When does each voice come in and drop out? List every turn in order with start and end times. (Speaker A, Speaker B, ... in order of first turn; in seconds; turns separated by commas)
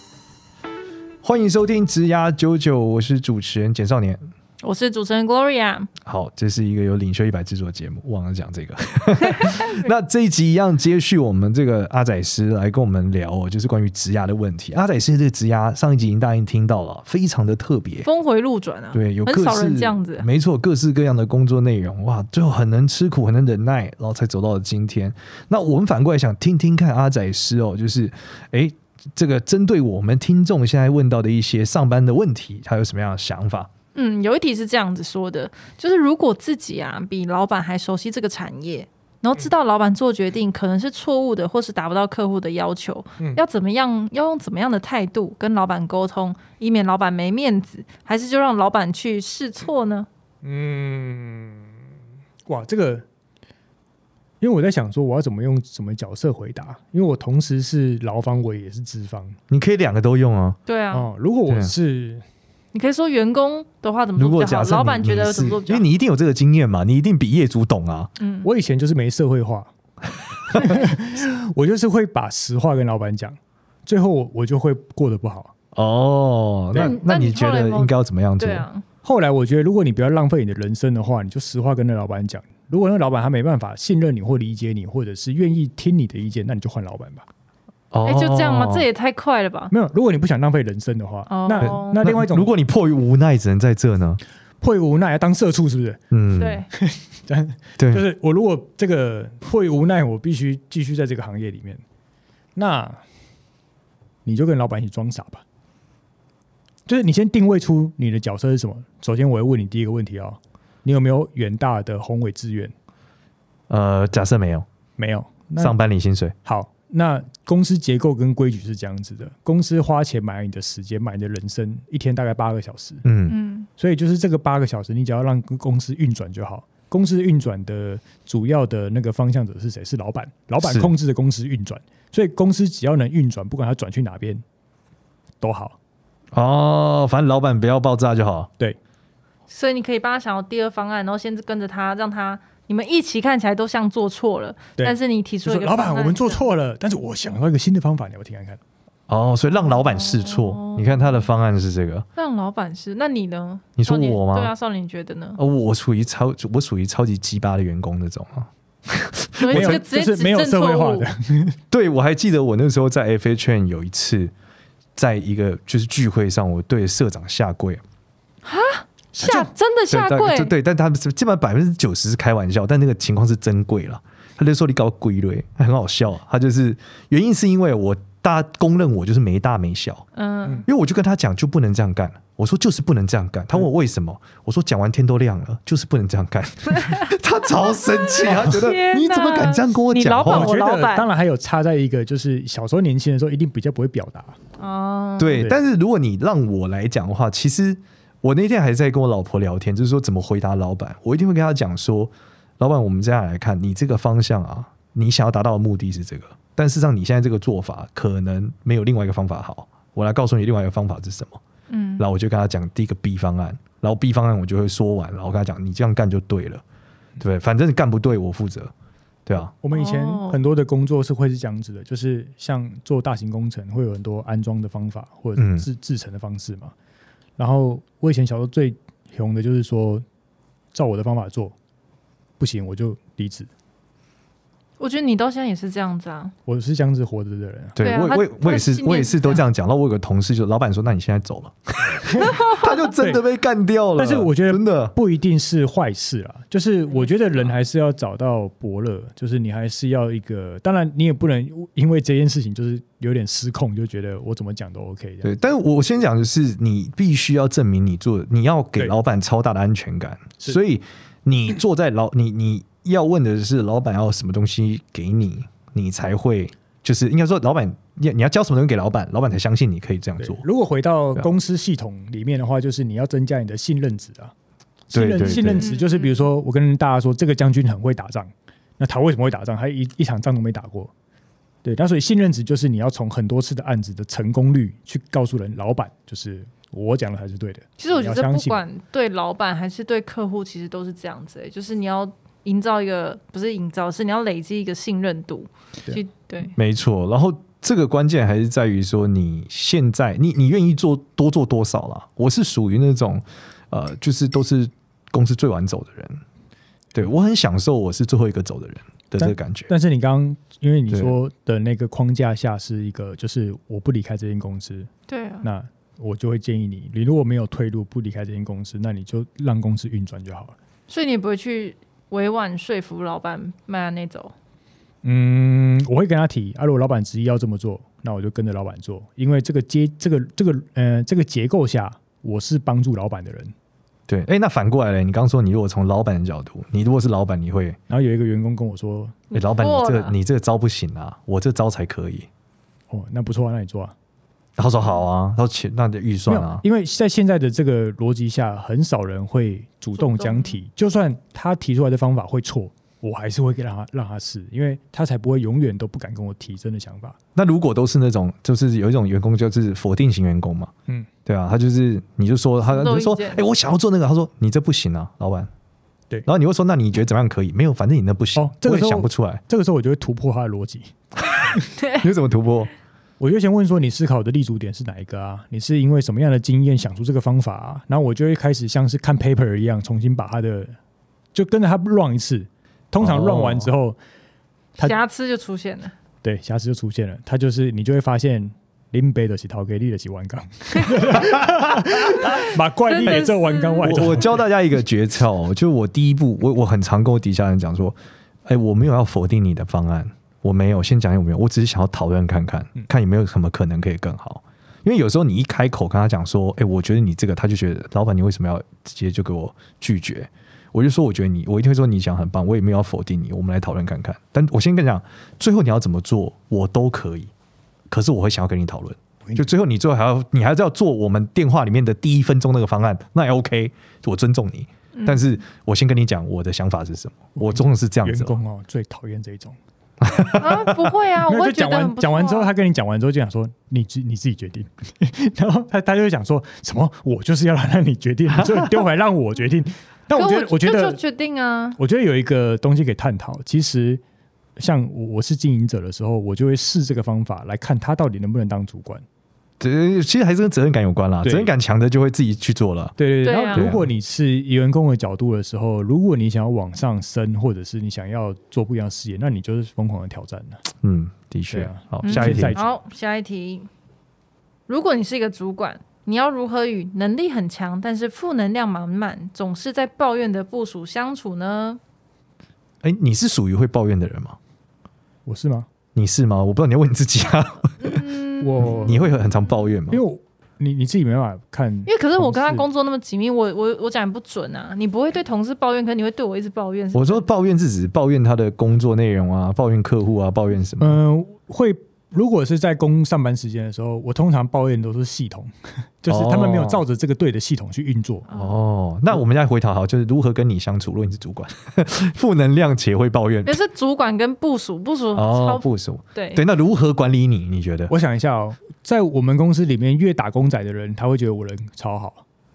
Speaker A: 1.2-4.2, Speaker B: 4.6-5.9, Speaker A: 6.0-18.1, Speaker B: 9.2-9.8, Speaker B: 18.0-20.3, Speaker A: 18.9-33.7, Speaker B: 34.0-50.1, Speaker C: 50.4-51.7, Speaker C: 52.5-53.0, Speaker C: 54.4-59.4, Speaker A: 59.5-60.6, Speaker B: 60.7-61.1, Speaker C: 60.9-62.2, Speaker A: 61.5-61.7, Speaker B: 62.7-65.8, Speaker A: 64.2-68.1, Speaker B: 68.2-68.5, Speaker C: 68.4-69.7, Speaker A: 70.5-70.8, Speaker C: 70.5-75.5, Speaker B: 70.6-70.9, Speaker A: 75.7-78.7, Speaker B: 76.7-78.8, Speaker C: 79.0-87.3, Speaker A: 87.9-88.9, Speaker B: 88.0-89.7, Speaker C: 89.7-92.5, Speaker B: 91.3-92.0, Speaker A: 91.6-94.2, Speaker C: 94.6-96.0, Speaker A: 96.1-96.6, Speaker B: 96.4-96.7, Speaker C: 96.7-101.8, Speaker A: 97.8-98.1, Speaker C: 102.6-103.0, Speaker C: 104.2-105.4, Speaker C: 106.9-112.7, Speaker A: 113.7-114.7, Speaker C: 115.0-115.8, Speaker A: 115.6-116.3, Speaker C: 116.5-123.0, Speaker A: 123.0-123.4, Speaker B: 123.3-123.7, Speaker C: 123.8-134.4, Speaker A: 130.6-130.9, Speaker C: 135.4-135.8, Speaker A: 136.3-138.5, Speaker B: 139.5-146.5, Speaker C: 144.8-148.6, Speaker A: 149.1-152.1, Speaker B: 149.6-151.3, Speaker B: 152.2-155.4, Speaker A: 153.8-154.5, Speaker A: 155.4-159.8, Speaker B: 159.4-161.1, Speaker C: 159.5-161.6, Speaker A: 161.7-164.3, Speaker A: 165.0-167.8, Speaker B: 168.4-170.5, Speaker C: 169.1-169.5, Speaker A: 169.9-180.1, Speaker B: 180.2-180.7, Speaker A: 180.7-190.5, Speaker B: 186.7-187.1, Speaker B: 187.7-191.1, Speaker C: 190.2-194.4, Speaker B: 194.6-195.4, Speaker A: 195.2-211.4, Speaker C: 195.3-195.6, Speaker B: 211.7-212.0, Speaker A: 212.0-216.6, Speaker A: 217.2-218.7, Speaker A: 219.3-219.5, Speaker C: 219.4-226.7, Speaker B: 219.7-220.4, Speaker A: 225.4-225.7, Speaker C: 227.4-230.1, Speaker C: 230.7-231.6, Speaker C: 232.4-233.5, Speaker B: 234.8-236.3, Speaker C: 236.5-237.8, Speaker A: 237.8-244.9, Speaker B: 237.8-239.4, Speaker C: 242.0-242.4, Speaker B: 242.2-242.7, Speaker C: 242.9-243.2, Speaker C: 244.0-255.3, Speaker B: 246.9-247.5, Speaker A: 255.2-270.4, Speaker C: 270.2-274.3, Speaker C: 274.9-280.9, Speaker A: 274.9-275.7, Speaker B: 275.2-276.3, Speaker C: 281.6-288.6, Speaker B: 287.8-296.5, Speaker A: 296.6-306.2, Speaker A: 306.9-309.7, Speaker C: 309.2-314.9, Speaker B: 315.1-315.5, Speaker C: 315.4-320.6, Speaker B: 320.9-324.3, Speaker C: 325.0-333.5, Speaker A: 334.1-337.8, Speaker C: 337.9-339.2, Speaker B: 339.3-340.2, Speaker A: 339.3-342.3, Speaker C: 342.9-343.9, Speaker A: 344.6-346.6, Speaker C: 346.3-357.2, Speaker B: 349.9-350.6, Speaker A: 357.4-360.7, Speaker A: 361.3-365.5, Speaker B: 362.6-363.5, Speaker A: 366.3-369.4, Speaker C: 368.4-370.9, Speaker B: 371.8-372.1, Speaker A: 372.0-372.7, Speaker C: 373.2-380.8, Speaker C: 381.3-384.0, Speaker A: 383.0-383.7, Speaker B: 384.8-385.9, Speaker C: 386.2-394.4, Speaker B: 390.7-391.1, Speaker B: 392.2-394.0, Speaker A: 393.8-417.3, Speaker A: 417.9-428.4, Speaker B: 424.9-425.2, Speaker C: 427.4-429.6, Speaker A: 430.0-430.9, Speaker B: 430.4-432.5, Speaker C: 431.3-441.0, Speaker A: 438.4-438.7, Speaker B: 440.1-441.8, Speaker C: 441.8-444.0, Speaker C: 444.6-449.0, Speaker A: 449.6-453.0, Speaker C: 451.2-451.5, Speaker C: 453.0-460.6, Speaker B: 453.2-453.7, Speaker A: 453.5-453.9, Speaker A: 460.8-462.6, Speaker C: 461.5-462.7, Speaker B: 462.0-463.7, Speaker B: 464.7-471.8, Speaker A: 472.8-474.4, Speaker C: 475.3-475.7, Speaker A: 475.9-478.0, Speaker B: 477.8-478.9, Speaker C: 478.4-479.1, Speaker A: 478.6-480.0, Speaker C: 479.9-482.7, Speaker B: 481.9-487.3, Speaker A: 486.9-491.0, Speaker C: 490.8-498.3, Speaker A: 496.1-496.8, Speaker A: 498.3-503.6, Speaker B: 503.4-506.4, Speaker A: 505.1-507.9, Speaker C: 507.9-512.2